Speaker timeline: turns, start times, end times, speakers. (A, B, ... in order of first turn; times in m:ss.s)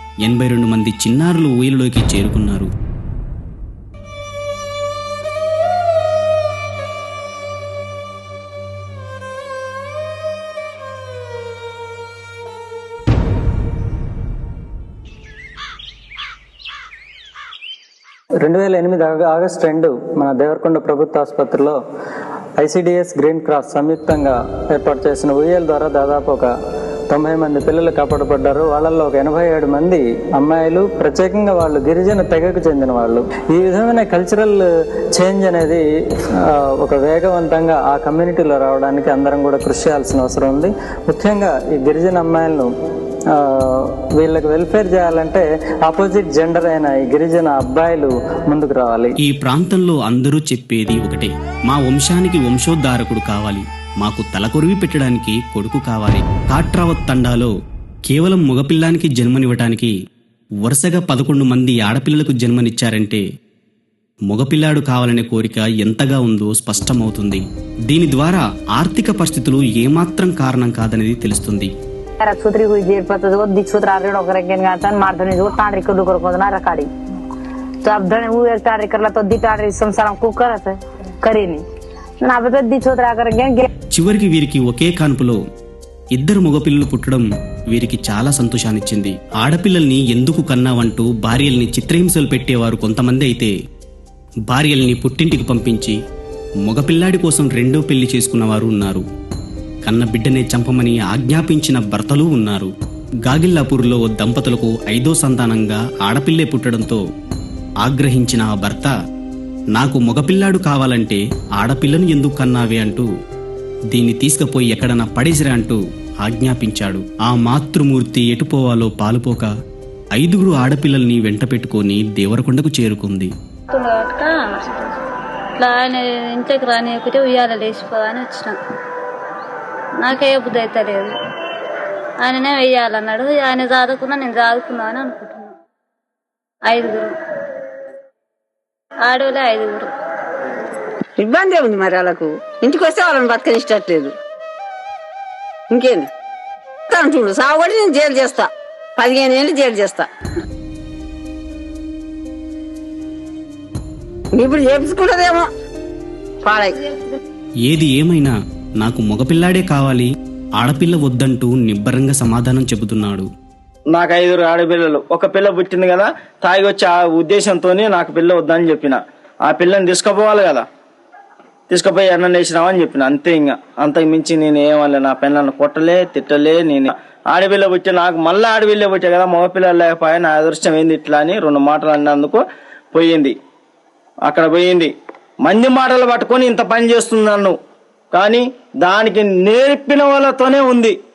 0:00.2-0:02.7 A
0:18.4-0:21.8 B
0:22.6-0:26.5 B
0:27.1-0:35.8 B
0:36.8-0:42.7 B
0:43.4-0:49.1 B
0:49.2-0:57.5 A
0:58.1-0:59.9 A
1:00.6-1:03.2 A
1:04.3-1:11.7 A
1:12.2-1:16.9 C
1:17.8-1:21.6 C
1:22.2-1:23.6 C
1:24.0-1:25.4 A
1:26.2-1:33.5 A
1:34.5-1:36.0 A
1:36.7-1:39.0 A
1:39.9-1:42.7 A
1:43.2-1:47.0 A
1:47.8-1:48.9 A
1:49.7-1:53.1 A
1:53.9-1:59.5 A
2:00.2-2:03.3 A
2:03.7-2:04.9 D
2:05.6-2:08.6 D
2:10.0-2:11.1 D
2:12.2-2:15.5 D
2:16.7-2:17.1 D
2:19.0-2:19.9 D
2:21.2-2:24.1 E
2:25.7-2:26.0 E
2:26.9-2:28.5 E
2:29.0-2:30.1 E
2:34.4-2:35.5 E
2:36.4-2:36.8 E
2:37.6-2:43.3 A
2:44.0-2:50.6 F
2:51.7-3:02.4 F
3:02.9-3:03.3 F
3:04.3-3:04.9 F
3:05.5-3:07.6 F
3:08.1-3:11.0 F